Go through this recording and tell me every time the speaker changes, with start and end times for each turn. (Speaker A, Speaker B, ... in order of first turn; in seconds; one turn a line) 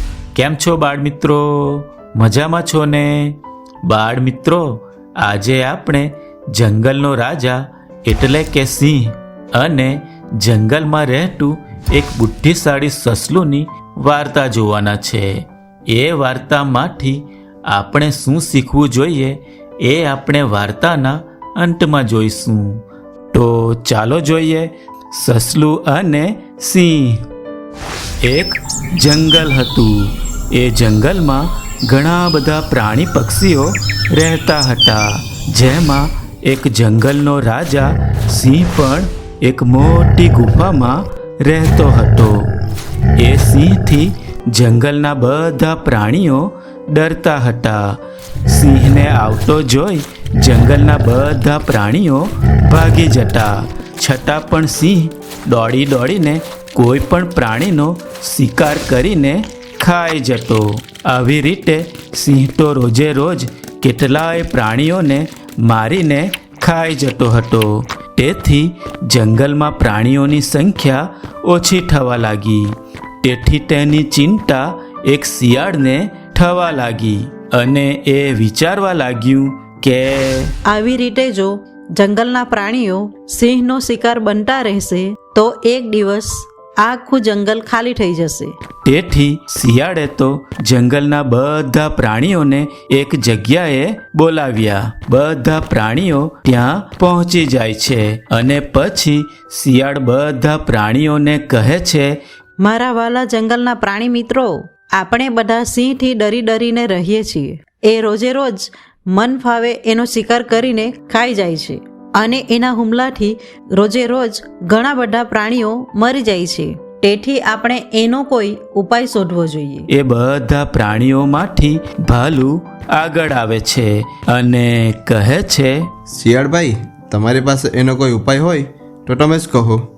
Speaker A: 0.3-27.3
Speaker A: 28.2-42.5
Speaker A: 43.2-80.5
Speaker B: 80.7-88.5
Speaker A: 88.8-102.2
Speaker B: 102.6-119.9
Speaker A: 119.9-125.9
Speaker C: 126.1-129.9